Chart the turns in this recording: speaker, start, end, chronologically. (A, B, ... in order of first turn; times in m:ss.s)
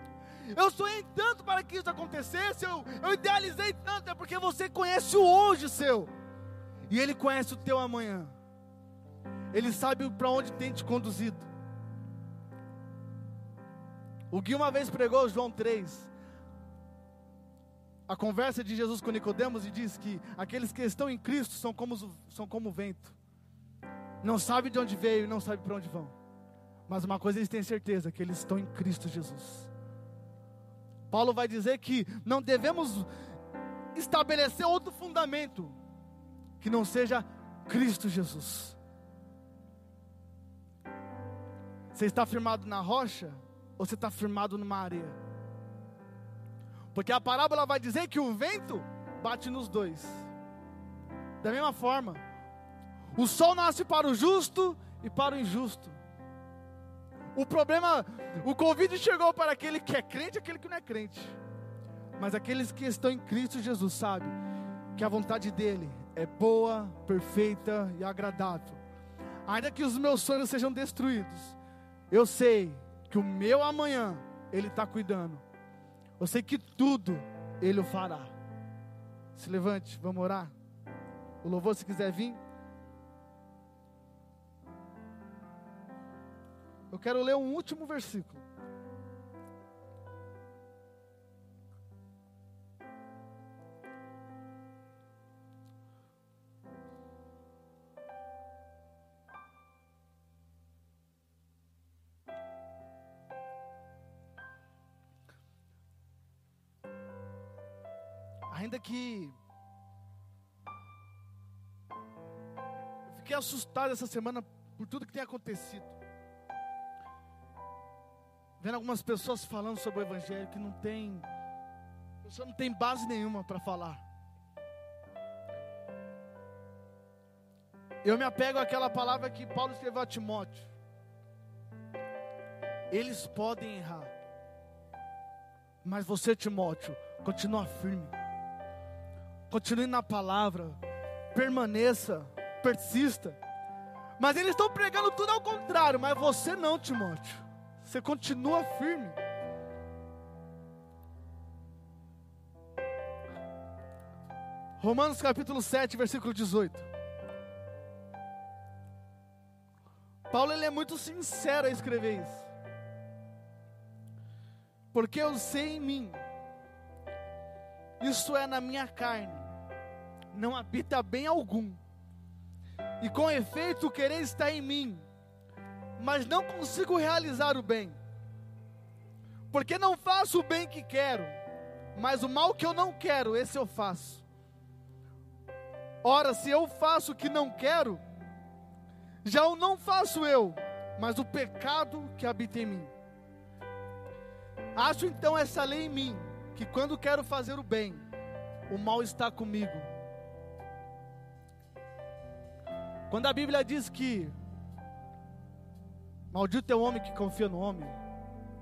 0:00.5-0:06.1 A
0:06.9-0:08.3 A
0:09.5-0:11.5 A
0:14.3-0:16.1 A
0:18.1-0:23.2 A
0:24.2-0:26.1 A
0:26.9-0:29.7 A
0:31.1-0:33.1 A
0:33.9-0:35.8 A
0:36.6-0:38.8 A
0:41.9-0:45.2 A
0:46.9-0:50.3 A
0:51.4-0:52.2 A
0:53.2-0:56.0 A
0:57.3-1:01.4 A
1:02.2-1:04.4 A
1:04.9-1:08.8 A
1:09.5-1:11.6 A
1:12.1-1:15.4 A
1:16.2-1:18.3 A
1:19.3-1:20.5 A
1:21.4-1:22.4 A
1:26.9-1:28.4 A
1:48.5-1:49.4 A
1:53.1-1:55.9 A
1:58.6-2:01.2 A
2:02.2-2:04.0 A
2:08.0-2:10.7 A
2:12.9-2:14.1 A
2:15.8-2:18.1 A
2:19.5-2:20.8 A
2:21.3-2:23.4 A
2:24.2-2:29.2 A
2:34.8-2:36.8 A
2:40.3-2:42.5 A
2:44.9-2:46.2 A
2:48.0-2:49.5 A
2:50.3-2:51.8 A
2:53.0-2:55.0 A
2:56.0-2:58.0 A
2:59.5-3:01.3 A
3:01.9-3:04.2 A
3:06.0-3:08.0 A
3:09.2-3:12.9 A
3:14.7-3:18.0 A
3:18.7-3:19.9 A
3:23.1-3:24.3 A
3:26.3-3:28.0 A